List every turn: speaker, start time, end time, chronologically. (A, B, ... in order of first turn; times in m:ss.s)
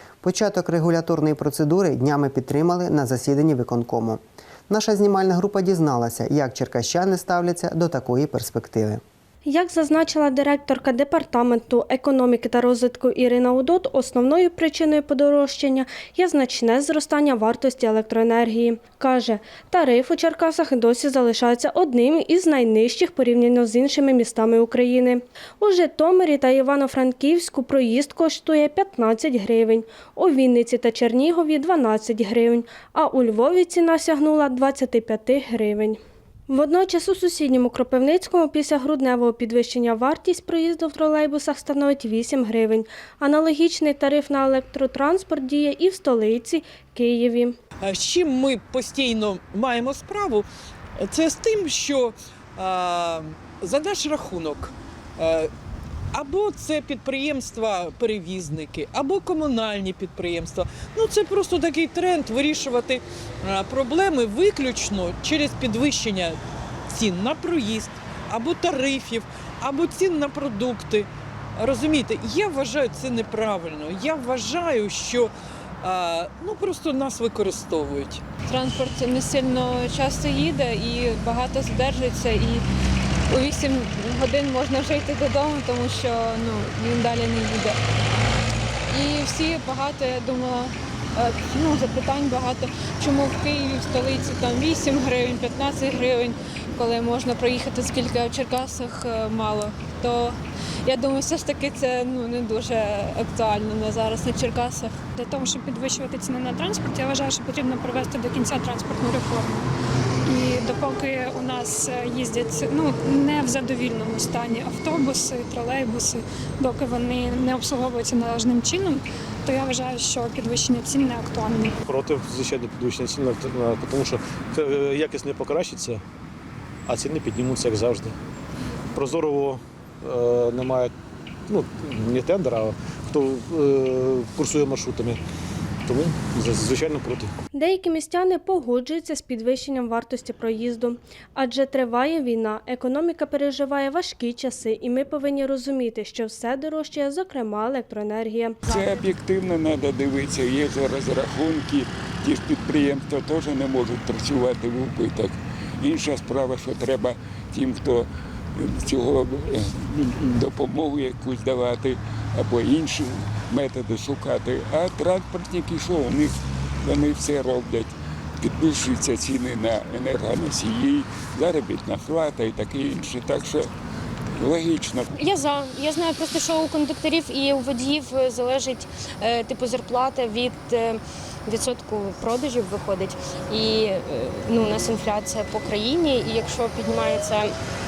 0:00.2-0:09.0 A
0:09.4-0:47.6 B
0:47.8-0:50.5 C
0:51.0-0:55.5 C
0:56.1-1:15.3 C
1:15.8-1:18.2 C
1:18.5-1:22.6 D
1:23.3-1:27.8 D
1:28.9-1:45.0 D
1:45.2-1:49.6 E
1:50.2-2:01.8 E
2:01.8-2:06.0 F
2:06.9-2:08.2 F
2:08.9-2:10.9 F
2:11.5-2:15.2 F
2:15.9-2:17.3 F
2:17.6-2:28.6 B
2:28.7-2:53.7 G
2:54.4-2:55.1 G
2:55.1-3:07.6 H